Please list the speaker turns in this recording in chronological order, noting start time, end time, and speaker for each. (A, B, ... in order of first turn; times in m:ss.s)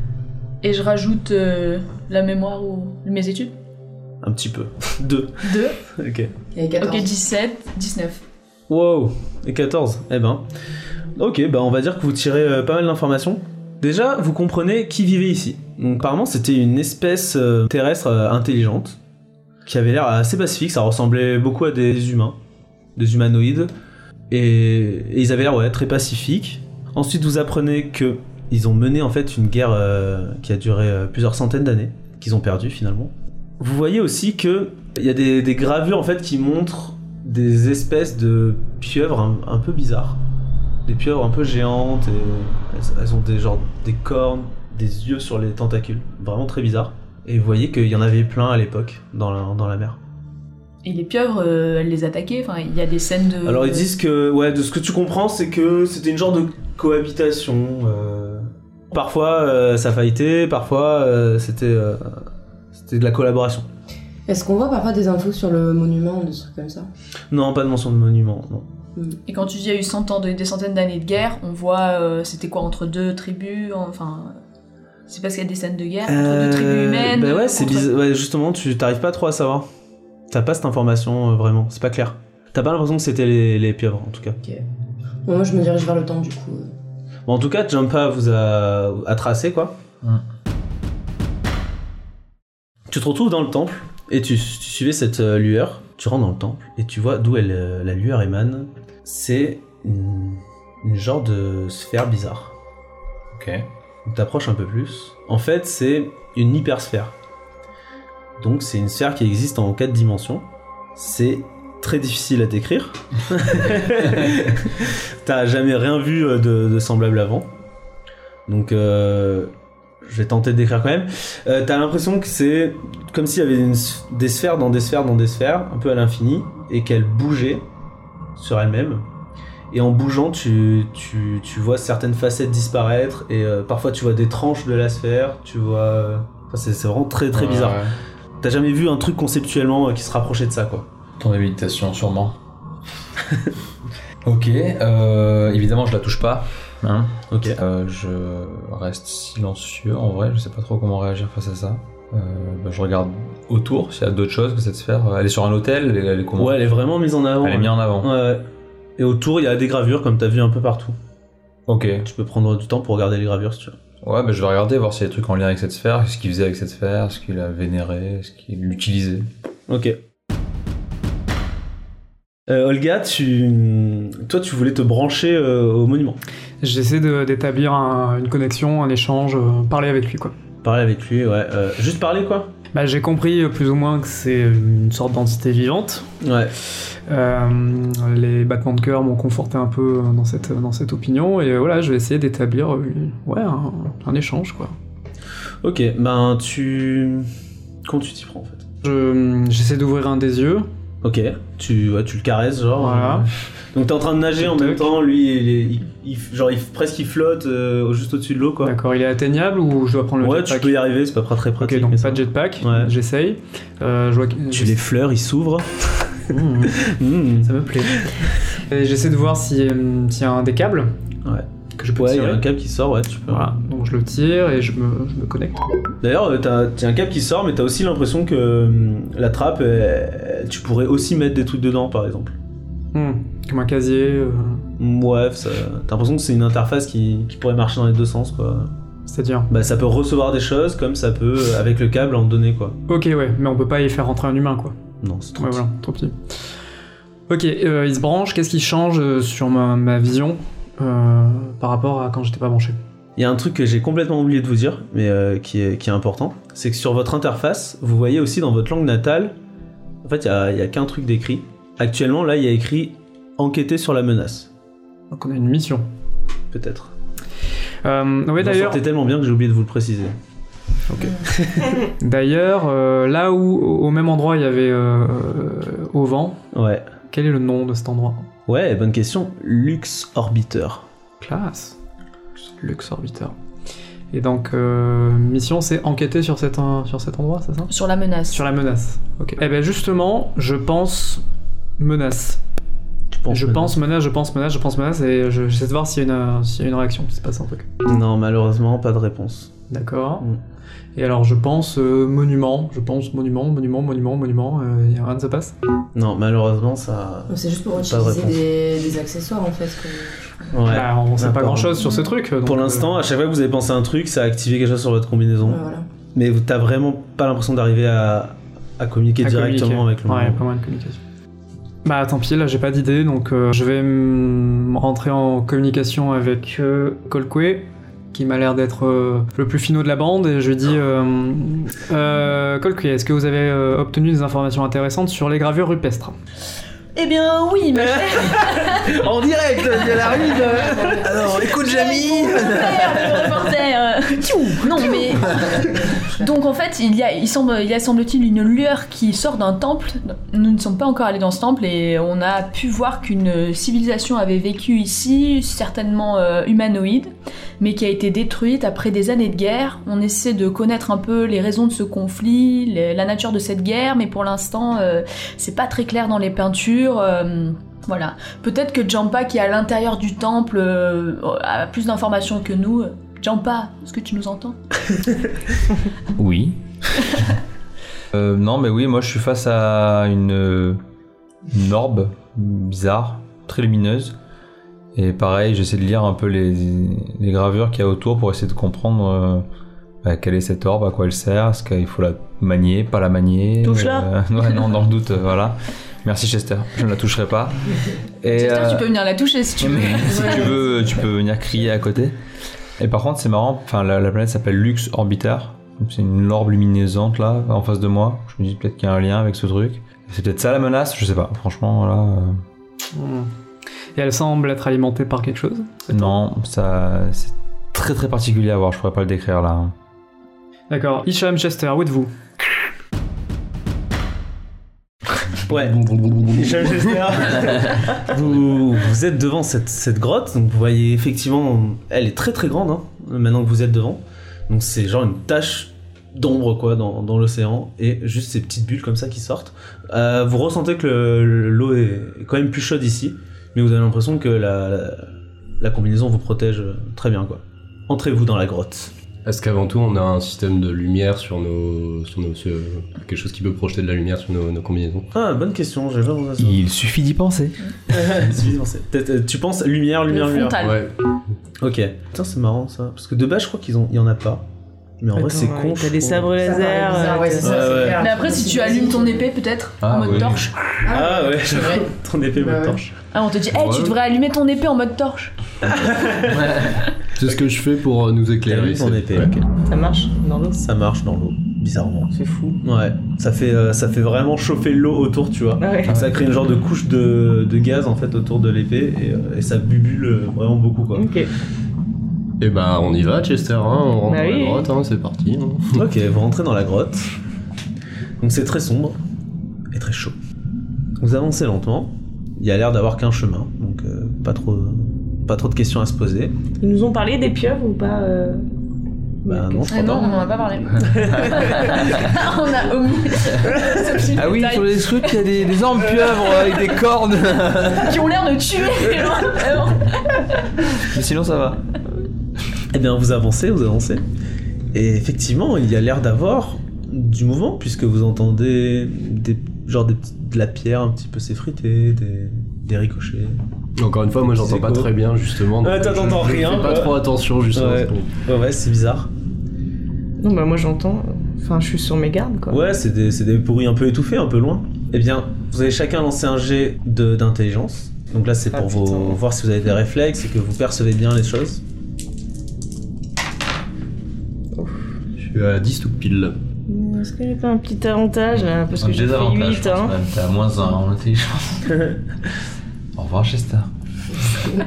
0:00.6-0:03.5 A
0:04.2-0:05.4 B
0:05.4-0:05.8 A
0:05.9-0:06.3 B
0:06.6-0:07.1 C
0:06.8-0:08.2 A
0:08.7-0:10.4 B
0:11.2-0:19.0 B
0:19.6-0:22.4 B
0:23.0-0:23.7 B
0:24.3-0:40.2 B
0:40.9-0:50.0 B
0:50.8-0:53.8 A
0:53.4-1:03.7 B
1:04.3-1:06.9 C
1:07.3-1:08.7 B
1:09.3-1:14.4 A
1:15.1-1:17.9 A
1:16.1-1:19.7 B
1:20.3-1:24.4 B
1:25.3-1:26.7 C
1:27.3-1:29.8 B
1:32.9-1:42.5 B
1:43.3-1:43.7 D
1:44.1-1:47.1 B
1:48.4-1:50.4 B
1:51.0-1:57.5 B
1:58.5-1:59.5 B
2:00.0-2:07.7 B
2:08.4-2:09.0 B
2:09.7-2:17.8 B
2:17.3-2:17.9 D
2:18.4-2:20.9 B
2:21.2-2:22.4 D
2:24.2-2:36.6 D
2:27.3-2:27.6 B
2:36.4-2:38.4 B
2:37.4-2:38.1 D
2:39.0-2:41.0 B
2:41.7-2:42.1 D
2:42.0-2:43.8 B
2:44.0-2:49.3 D
2:49.7-2:50.0 B
2:52.5-2:56.2 B
2:56.6-3:00.4 E
3:00.6-3:02.5 B
3:02.7-3:06.1 E
3:06.2-3:06.5 B
3:07.1-3:14.8 E
3:15.6-3:17.3 B
3:17.9-3:18.6 B
3:18.8-3:20.7 E
3:21.0-3:28.7 B
3:22.8-3:23.3 E
3:24.4-3:24.9 E
3:28.6-3:30.8 E
3:30.2-3:32.9 B
3:31.6-3:34.8 E
3:34.5-3:38.2 B
3:36.3-3:36.8 E
3:37.4-3:38.1 E
3:38.7-3:40.9 E
3:41.2-3:43.5 B
3:41.8-3:42.4 E
3:43.3-3:45.6 E
3:46.0-3:52.4 B
3:52.9-3:54.6 E
3:54.8-3:58.7 B
3:59.1-3:59.5 E
3:59.5-4:02.8 B
4:02.9-4:04.8 E
4:05.0-4:05.6 B
4:05.4-4:06.2 E
4:07.3-4:12.8 E
4:13.2-4:19.4 B
4:20.0-4:24.5 B
4:25.1-4:25.9 E
4:26.5-4:26.9 B
4:27.8-4:28.8 E
4:28.4-4:30.1 B
4:30.9-4:31.2 E
4:31.0-4:31.8 B
4:32.0-4:36.4 E
4:36.5-4:36.9 B
4:37.1-4:38.3 E
4:38.5-4:40.8 B
4:41.2-4:41.8 E
4:42.4-4:43.4 E
4:44.1-4:47.7 E
4:47.7-4:48.5 A
4:48.3-4:51.2 E
4:51.8-4:52.4 E
4:53.1-4:53.8 B
4:53.3-4:57.7 E
4:57.8-4:59.5 B
4:59.7-5:00.2 E
5:01.0-5:05.6 E
5:06.0-5:08.4 B
5:07.3-5:10.2 C
5:10.5-5:11.8 B
5:10.7-5:12.9 E
5:11.8-5:12.1 A
5:12.4-5:15.6 B
5:15.4-5:15.9 C
5:16.1-5:20.4 B
5:19.2-5:21.0 E
5:21.8-5:36.2 E
5:37.0-5:39.0 A
5:37.8-5:42.8 B
5:40.1-5:41.1 C
5:40.3-6:14.6 A
5:41.0-5:43.3 D
5:45.2-5:45.6 D
5:45.4-5:46.3 C
6:16.2-6:17.2 D
6:18.1-6:20.8 D
6:21.5-6:24.2 D
6:25.0-6:29.4 D
6:30.0-6:37.6 D
6:33.6-6:34.1 F
6:38.2-6:38.9 D
6:38.3-6:40.5 A
6:39.6-6:42.1 D
6:40.1-6:40.6 C
6:42.8-6:52.4 D
6:52.9-6:53.3 E
6:54.0-6:56.2 E
6:55.9-6:59.7 D
7:00.7-7:02.1 E
7:05.5-7:25.1 B
7:05.5-7:07.2 G
7:25.6-7:28.9 B
7:29.2-7:35.1 G
7:35.1-7:36.6 B
7:36.4-7:38.2 D
7:37.9-7:40.6 B
7:40.1-7:40.8 A
7:40.6-7:40.9 G
7:41.6-7:44.4 B
7:45.0-7:46.4 B
7:45.1-7:47.7 F
7:46.4-7:49.3 C
7:47.4-7:48.0 B
7:48.0-7:50.5 A
7:49.8-7:50.8 D
7:50.1-7:50.3 G
7:50.8-7:52.8 C
7:50.9-7:52.9 B
7:53.1-7:55.4 A
7:53.5-7:54.0 G
7:55.6-7:56.6 B
7:56.2-7:56.8 D
7:57.2-7:59.3 G
7:58.5-7:59.5 B
7:59.6-8:00.6 F
8:00.6-8:11.1 B
8:02.1-8:02.6 F
8:05.6-8:06.0 F
8:05.9-8:06.2 D
8:10.9-8:11.3 F
8:12.4-8:15.8 G
8:14.1-8:14.7 F
8:15.8-8:17.1 B
8:18.2-8:19.0 B
8:19.7-8:20.2 B
8:21.0-8:26.4 B
8:26.6-8:28.4 F
8:29.2-8:29.8 F
8:29.3-8:30.2 B
8:29.7-8:35.3 A
8:30.7-8:31.9 B
8:31.2-8:32.2 D
8:34.1-8:38.0 D
8:37.7-8:40.7 A
8:40.8-8:41.6 D
8:42.7-8:44.0 B
8:44.7-8:53.4 B
8:53.8-8:58.1 G
8:54.3-8:54.9 B
8:55.6-8:57.0 B
8:57.5-8:59.1 B
9:00.2-9:02.6 F
9:02.5-9:11.6 B
9:08.5-9:09.2 F
9:15.2-9:16.4 G
9:16.7-9:20.0 F
9:18.8-9:21.8 D
9:23.0-9:23.7 D